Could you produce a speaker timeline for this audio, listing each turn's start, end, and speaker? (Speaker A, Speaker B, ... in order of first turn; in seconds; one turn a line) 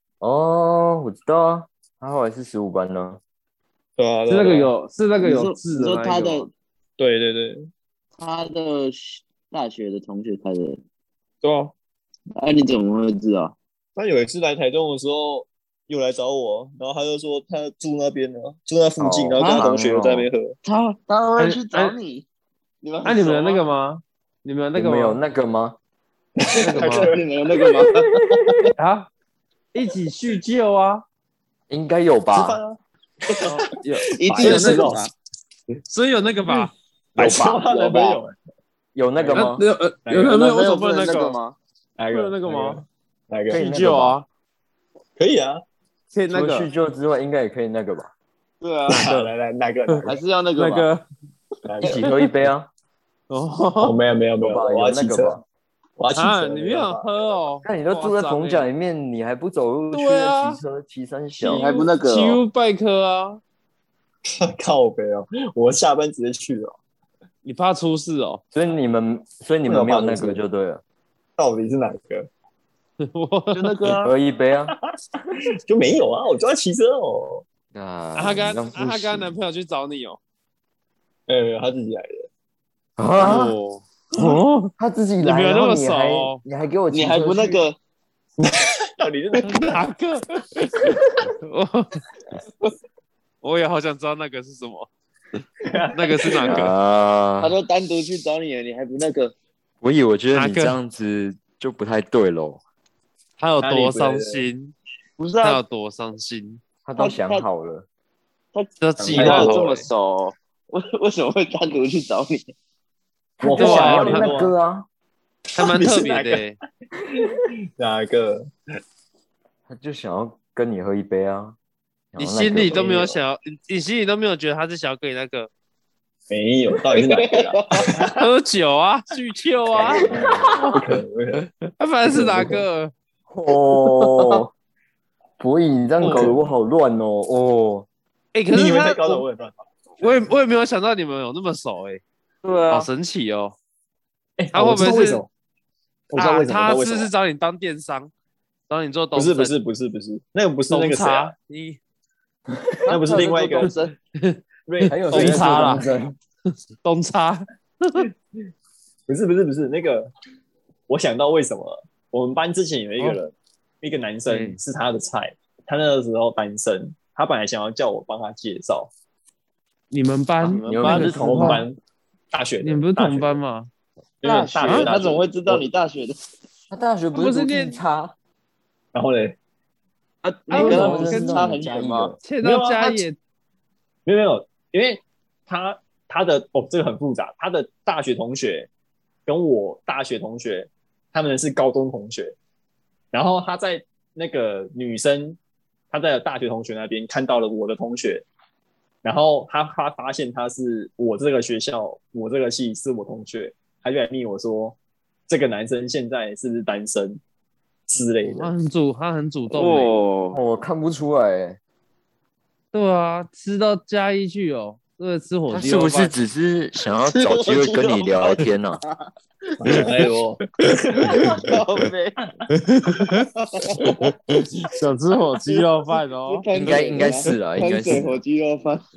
Speaker A: 0.2-3.2
Speaker B: 4.0-4.7
Speaker C: 4.3-6.5
Speaker D: 5.2-6.5
Speaker B: 7.0-7.7
Speaker D: 8.2-10.8
Speaker B: 11.4-11.7
Speaker D: 12.3-13.5
Speaker B: 13.9-20.6
Speaker A: 19.0-20.3
Speaker D: 19.4-19.7
Speaker D: 20.6-22.2
Speaker C: 21.4-21.9
Speaker D: 22.8-23.6
Speaker C: 23.0-25.2
Speaker A: 24.8-25.8
Speaker B: 26.4-28.7
Speaker C: 26.6-27.1
Speaker D: 26.8-28.2
Speaker C: 28.8-29.1
Speaker C: 29.7-31.0
Speaker A: 31.7-32.6
Speaker B: 32.3-33.6
Speaker C: 33.4-34.9
Speaker D: 34.2-35.1
Speaker B: 34.2-35.0
Speaker C: 35.8-36.7
Speaker A: 37.1-37.6
Speaker B: 37.2-38.3
Speaker D: 37.6-38.2
Speaker A: 38.9-39.6
Speaker B: 39.1-40.4
Speaker C: 39.3-41.4
Speaker D: 40.2-41.6
Speaker B: 42.0-43.6
Speaker C: 42.1-42.8
Speaker A: 43.5-44.2
Speaker C: 43.5-44.2
Speaker B: 45.2-45.6
Speaker C: 46.1-46.7
Speaker A: 46.3-48.1
Speaker D: 48.6-49.1
Speaker B: 48.9-50.2
Speaker C: 48.9-49.3
Speaker D: 50.0-50.9
Speaker C: 50.6-51.0
Speaker B: 51.6-52.0
Speaker A: 51.8-52.7
Speaker C: 53.3-54.0
Speaker B: 53.8-55.4
Speaker A: 54.4-55.4
Speaker B: 56.0-57.4
Speaker C: 56.1-58.6
Speaker A: 57.6-61.7
Speaker C: 59.9-60.6
Speaker D: 61.5-62.4
Speaker C: 61.5-63.4
Speaker B: 64.2-66.7
Speaker C: 67.4-68.4
Speaker A: 68.5-70.8
Speaker B: 69.7-70.4
Speaker B: 71.4-72.3
Speaker C: 73.0-73.8
Speaker D: 73.5-74.1
Speaker A: 74.0-74.8
Speaker B: 75.7-77.4
Speaker A: 77.7-79.3
Speaker C: 78.2-80.2
Speaker B: 81.3-82.3
Speaker A: 83.0-83.5
Speaker C: 83.2-86.4
Speaker A: 84.1-87.6
Speaker D: 86.9-87.8
Speaker B: 88.4-89.8
Speaker C: 89.5-92.0
Speaker C: 93.4-94.9
Speaker B: 95.6-96.5
Speaker C: 95.9-96.7
Speaker A: 96.5-97.5
Speaker D: 97.4-99.3
Speaker A: 99.8-102.6
Speaker C: 100.3-100.8
Speaker C: 103.4-104.7
Speaker B: 103.6-104.4
Speaker D: 105.2-105.6
Speaker C: 105.4-106.6
Speaker A: 106.8-107.8
Speaker D: 107.0-107.4
Speaker D: 108.5-112.5
Speaker C: 108.8-109.8
Speaker B: 109.0-109.8
Speaker A: 113.4-114.9
Speaker B: 113.4-114.5
Speaker C: 113.5-114.3
Speaker B: 115.5-116.4
Speaker C: 115.5-116.5
Speaker B: 117.1-118.5
Speaker A: 119.7-121.5
Speaker A: 122.1-123.2
Speaker C: 122.2-125.5
Speaker B: 126.3-128.2
Speaker D: 126.9-128.0
Speaker C: 128.1-130.8
Speaker B: 129.7-131.4
Speaker A: 129.8-130.5
Speaker C: 131.7-132.9
Speaker B: 132.0-132.6
Speaker A: 133.3-134.5
Speaker A: 135.4-137.9
Speaker C: 136.0-136.3
Speaker C: 138.3-139.2
Speaker B: 138.5-140.2
Speaker C: 140.0-142.0
Speaker A: 142.4-142.9
Speaker C: 142.7-143.5
Speaker B: 144.4-145.3
Speaker C: 144.5-145.2
Speaker B: 146.1-147.1
Speaker C: 146.1-148.1
Speaker C: 148.7-149.5
Speaker B: 149.1-151.3
Speaker C: 150.7-151.8
Speaker D: 152.9-153.9
Speaker B: 152.9-153.7
Speaker C: 153.6-155.9
Speaker B: 154.7-155.9
Speaker A: 154.9-156.1
Speaker C: 156.8-158.1
Speaker B: 159.1-160.1
Speaker B: 160.9-168.9
Speaker C: 164.3-164.6
Speaker C: 169.9-171.6
Speaker D: 170.4-170.9
Speaker A: 170.6-171.7
Speaker B: 170.8-171.8
Speaker B: 172.3-173.4
Speaker C: 172.6-173.7
Speaker B: 174.2-175.7
Speaker D: 174.2-176.2
Speaker A: 176.7-178.1
Speaker C: 177.1-177.8
Speaker B: 178.9-179.4
Speaker D: 180.2-182.1
Speaker C: 180.5-181.5
Speaker A: 180.5-182.2
Speaker C: 182.2-183.2
Speaker B: 182.4-183.0
Speaker B: 184.1-188.7
Speaker B: 189.2-192.4
Speaker B: 193.1-195.4
Speaker B: 195.9-198.2
Speaker B: 199.0-207.2
Speaker B: 207.9-208.5
Speaker C: 208.2-209.9
Speaker D: 209.5-210.4
Speaker A: 210.3-211.6
Speaker C: 212.7-216.1
Speaker A: 215.5-218.8
Speaker D: 217.1-219.1
Speaker B: 219.6-220.4
Speaker D: 219.7-220.1
Speaker C: 220.6-221.3
Speaker B: 221.0-221.3
Speaker D: 221.0-222.2
Speaker C: 222.5-223.3
Speaker D: 223.3-224.0
Speaker C: 223.8-226.4
Speaker D: 226.2-228.9
Speaker A: 226.5-228.2